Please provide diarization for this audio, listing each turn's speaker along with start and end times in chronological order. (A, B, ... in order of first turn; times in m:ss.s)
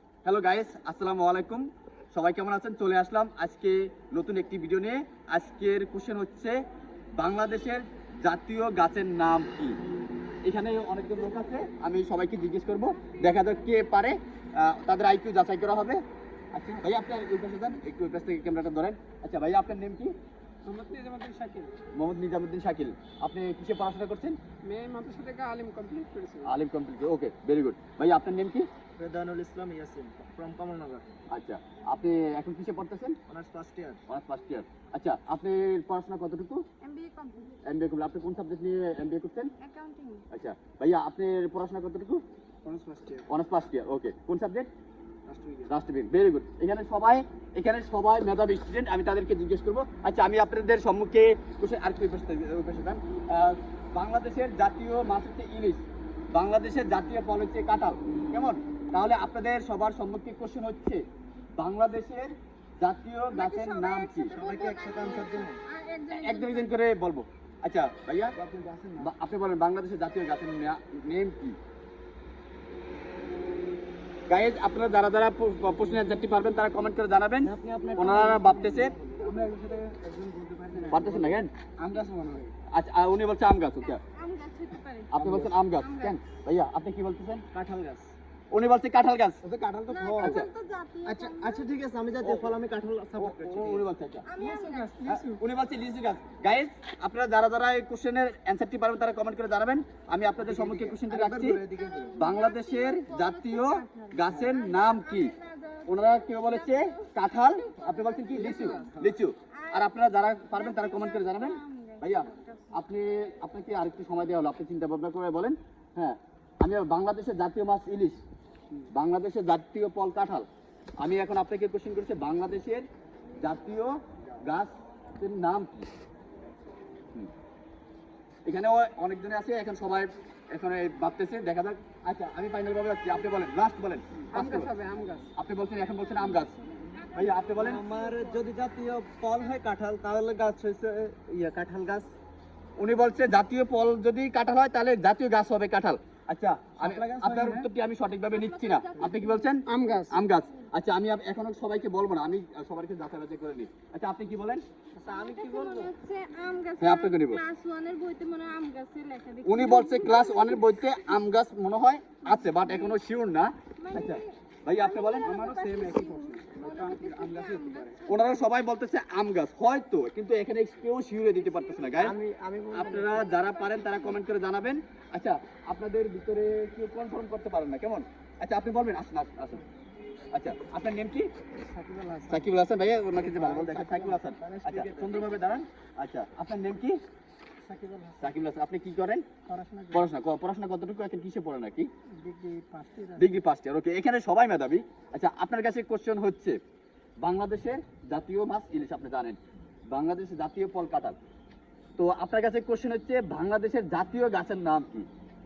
0:00.2-0:06.6 A
0:07.2-0:09.8 A
0:10.4-0:16.0 A
0:16.5-0:20.1 A
0:20.6-0:21.7 B
0:21.9-0:24.4 A
0:24.6-0:26.5 B
0:26.4-0:28.7 A
0:29.0-0:31.0 C
0:31.3-0:33.2 A
0:33.3-0:34.0 C
0:34.1-0:36.6 A
0:36.8-0:37.6 D
0:37.6-0:39.5 A
0:39.6-0:40.2 D
0:40.3-0:42.2 A
0:42.6-0:43.2 C
0:43.3-0:44.7 A
0:45.3-0:45.7 C
0:45.7-0:55.8 A
0:56.3-1:01.0 A
1:01.6-1:04.4 A
1:03.3-1:06.8 D
1:04.3-1:05.6 C
1:06.1-1:08.3 A
1:08.3-1:09.1 C
1:09.0-1:11.6 A
1:14.3-1:18.9 A
1:17.4-1:21.4 C
1:19.2-1:20.0 B
1:20.7-1:21.1 B
1:20.9-1:21.5 A
1:21.8-1:22.5 B
1:22.7-1:24.0 A
1:23.8-1:26.2 D
1:25.1-1:27.4 A
1:25.2-1:25.5 C
1:27.5-1:28.1 C
1:28.5-1:29.4 A
1:29.4-1:30.4 C
1:29.9-1:31.7 D
1:30.2-1:30.5 A
1:31.0-1:33.9 C
1:32.2-1:32.5 A
1:33.2-1:34.3 A
1:34.3-1:35.0 D
1:34.4-1:35.4 B
1:35.0-1:41.6 A
1:40.4-1:42.2 C
1:41.7-1:48.8 D
1:42.2-1:45.3 A
1:45.8-1:58.2 A
1:48.4-1:49.1 C
1:48.5-1:48.9 B
1:49.5-1:52.7 D
1:58.9-2:00.4 A
2:01.0-2:02.8 A
2:03.4-2:05.9 A
2:08.4-2:14.8 A
2:14.3-2:15.3 B
2:15.4-2:16.6 A
2:16.3-2:18.5 D
2:17.1-2:17.8 A
2:17.6-2:22.1 C
2:22.8-2:34.6 A
2:26.8-2:27.7 C
2:28.3-2:29.5 D
2:29.7-2:30.2 B
2:35.0-2:35.9 C
2:35.1-2:40.6 D
2:36.8-2:37.4 A
2:39.4-2:45.9 A
2:42.3-2:43.0 D
2:43.8-2:48.4 D
2:45.6-2:47.9 B
2:48.1-2:52.2 A
2:51.4-2:52.1 D
2:52.0-2:53.2 C
2:52.7-2:59.6 A
2:53.1-2:54.2 D
3:00.3-3:01.3 A
3:01.7-3:02.5 B
3:02.3-3:07.0 A
3:03.2-3:05.6 B
3:07.6-3:08.3 B
3:08.2-3:09.2 A
3:09.5-3:10.0 B
3:09.9-3:11.9 A
3:12.2-3:13.4 B
3:13.2-3:16.6 A
3:17.2-3:19.4 A
3:19.9-3:21.2 A
3:22.0-3:25.1 A